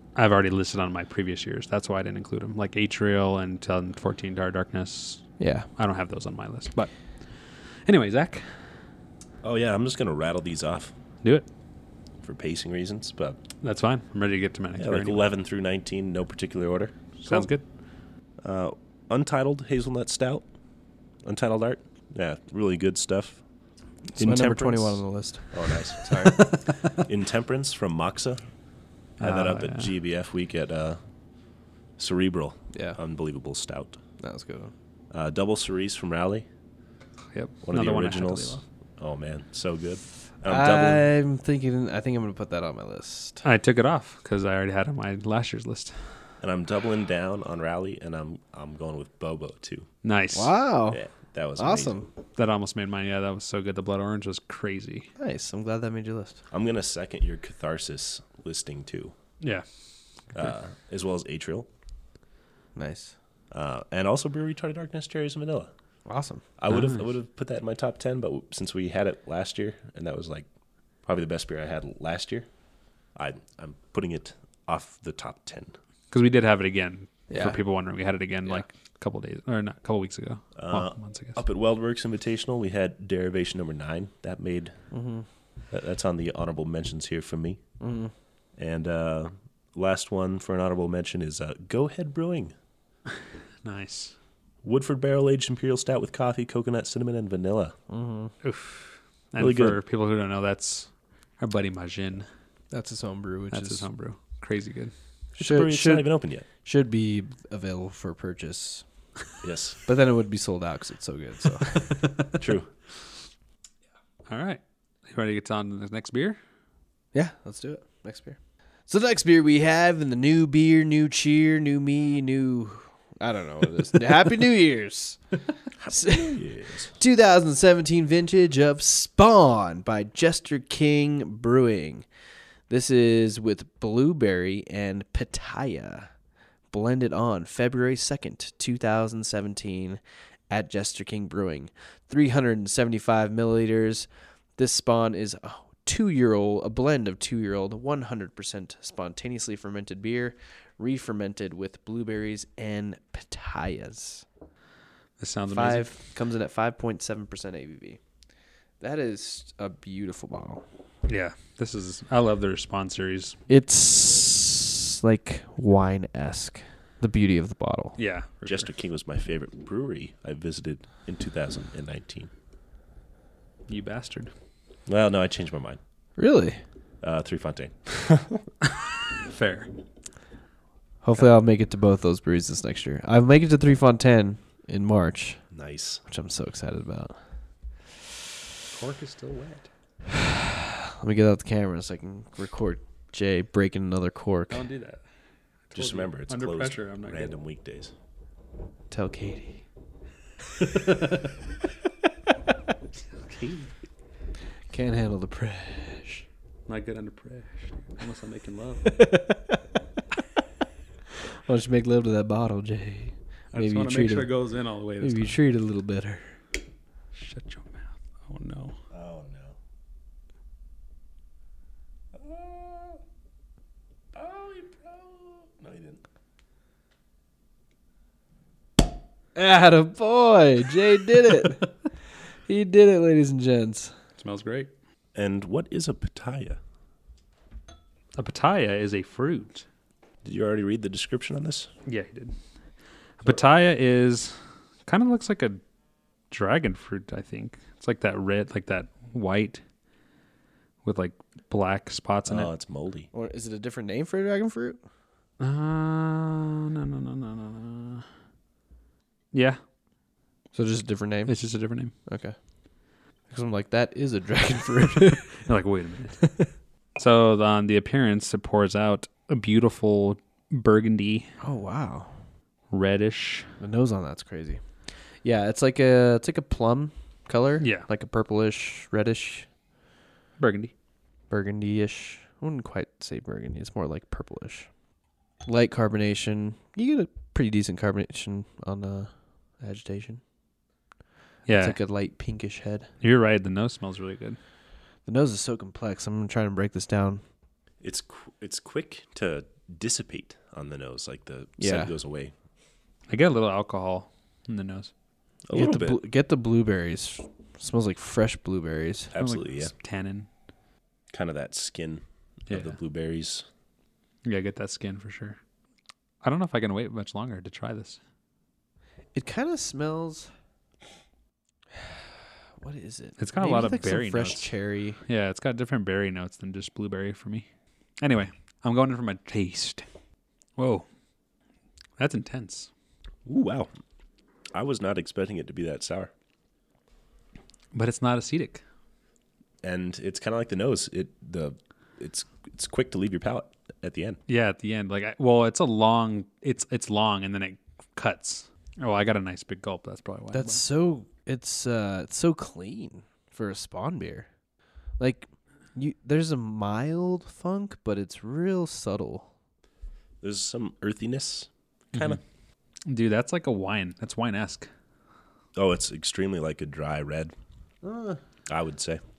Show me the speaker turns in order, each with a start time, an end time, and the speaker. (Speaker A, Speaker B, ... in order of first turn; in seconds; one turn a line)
Speaker A: 0.1-8.5
Speaker B: 5.4-5.7
Speaker C: 9.4-10.9
Speaker C: 12.2-13.4
Speaker A: 13.6-15.2
Speaker C: 14.8-17.0
Speaker A: 17.2-17.6
Speaker C: 18.4-20.5
Speaker C: 21.2-23.4
Speaker B: 24.1-26.5
Speaker C: 24.2-26.4
Speaker A: 26.1-26.9
Speaker C: 27.0-28.4
Speaker A: 29.2-29.9
Speaker C: 29.2-31.0
Speaker C: 32.0-34.0
Speaker B: 32.7-33.0
Speaker B: 34.2-34.7
Speaker C: 35.1-36.5
Speaker A: 37.3-38.6
Speaker C: 37.6-41.1
Speaker B: 40.5-43.4
Speaker A: 43.4-45.9
Speaker C: 46.4-49.9
Speaker A: 50.0-50.5
Speaker B: 50.3-51.0
Speaker C: 50.9-52.0
Speaker B: 51.6-52.1
Speaker A: 52.4-55.1
Speaker B: 55.2-56.4
Speaker C: 56.5-59.1
Speaker C: 60.3-61.7
Speaker B: 62.8-63.1
Speaker C: 63.5-65.7
Speaker B: 66.1-66.4
Speaker C: 66.6-70.5
Speaker A: 66.7-67.0
Speaker C: 71.0-72.5
Speaker C: 73.2-75.8
Speaker A: 76.1-81.4
Speaker B: 77.3-77.6
Speaker C: 80.6-84.8
Speaker B: 84.9-85.3
Speaker C: 85.7-87.6
Speaker B: 87.8-88.1
Speaker C: 88.6-92.5
Speaker A: 93.6-94.2
Speaker C: 94.6-97.8
Speaker B: 97.9-98.3
Speaker A: 98.4-102.3
Speaker C: 99.4-99.8
Speaker B: 102.7-103.9
Speaker A: 103.5-104.9
Speaker C: 105.4-106.5
Speaker B: 105.4-108.8
Speaker C: 109.4-109.8
Speaker B: 109.9-112.2
Speaker C: 112.4-112.7
Speaker A: 114.3-116.4
Speaker B: 117.1-125.2
Speaker C: 125.8-126.9
Speaker B: 125.9-126.4
Speaker B: 126.9-132.1
Speaker B: 132.7-136.1
Speaker B: 136.7-154.3
Speaker A: 155.2-155.9
Speaker B: 155.5-158.0
Speaker B: 158.8-160.6
Speaker A: 161.1-163.4
Speaker B: 163.5-168.0
Speaker A: 168.0-168.7
Speaker C: 168.5-172.3
Speaker A: 173.7-174.3
Speaker C: 174.9-175.8
Speaker B: 176.2-176.6
Speaker C: 177.0-178.4
Speaker A: 179.2-179.7
Speaker B: 181.0-185.4
Speaker C: 185.5-186.0
Speaker B: 186.1-187.2
Speaker A: 188.7-189.7
Speaker B: 190.1-194.6
Speaker A: 194.5-195.0
Speaker A: 195.7-197.3
Speaker C: 195.7-197.9
Speaker B: 198.9-199.6
Speaker A: 200.6-201.3
Speaker A: 203.1-203.7
Speaker B: 204.7-206.3
Speaker A: 206.7-209.0
Speaker B: 208.8-209.6
Speaker B: 211.5-214.3
Speaker A: 213.5-215.4
Speaker B: 215.0-216.4
Speaker A: 217.1-218.8
Speaker C: 218.9-219.6
Speaker C: 222.1-223.0
Speaker C: 224.1-226.0
Speaker B: 229.3-231.7
Speaker B: 232.5-233.9
Speaker A: 234.2-234.7
Speaker C: 235.2-236.6
Speaker A: 238.2-239.7
Speaker C: 240.2-241.7
Speaker A: 241.9-242.3
Speaker A: 243.2-244.3
Speaker A: 244.9-245.6
Speaker A: 246.3-249.6
Speaker A: 250.8-252.5
Speaker C: 252.3-253.1
Speaker B: 253.1-254.8
Speaker A: 255.4-258.1
Speaker A: 259.3-259.6
Speaker B: 260.5-261.3
Speaker A: 261.3-261.9
Speaker B: 262.1-262.4
Speaker B: 263.3-265.4
Speaker A: 265.3-266.3
Speaker B: 266.2-266.5
Speaker A: 267.0-271.3
Speaker B: 271.4-272.1
Speaker A: 272.7-273.5
Speaker B: 273.6-274.6
Speaker B: 275.2-279.5
Speaker A: 277.6-277.9
Speaker A: 280.4-280.7
Speaker B: 281.3-284.7
Speaker B: 285.4-290.2
Speaker A: 291.5-291.8
Speaker B: 291.5-292.9
Speaker A: 293.0-294.4
Speaker B: 295.1-297.2
Speaker C: 297.8-302.3
Speaker B: 301.6-301.9
Speaker A: 303.1-304.9
Speaker C: 305.5-306.0
Speaker B: 305.5-309.1
Speaker C: 309.1-309.7
Speaker A: 309.2-310.3
Speaker C: 311.1-313.5
Speaker A: 312.5-312.8
Speaker A: 314.2-315.4
Speaker A: 316.2-318.0
Speaker B: 319.1-320.3
Speaker B: 322.6-325.0
Speaker A: 323.2-324.5
Speaker A: 325.1-327.5
Speaker A: 328.0-329.9
Speaker A: 330.6-330.9
Speaker A: 332.0-332.7
Speaker C: 333.3-333.7
Speaker C: 334.5-336.1
Speaker A: 337.7-338.6
Speaker C: 339.6-344.2
Speaker A: 344.3-350.6
Speaker B: 350.3-354.3
Speaker B: 355.0-359.3
Speaker C: 360.2-362.2
Speaker A: 361.9-362.2
Speaker A: 362.9-364.7
Speaker C: 365.6-367.3
Speaker B: 367.8-368.2
Speaker C: 368.5-369.0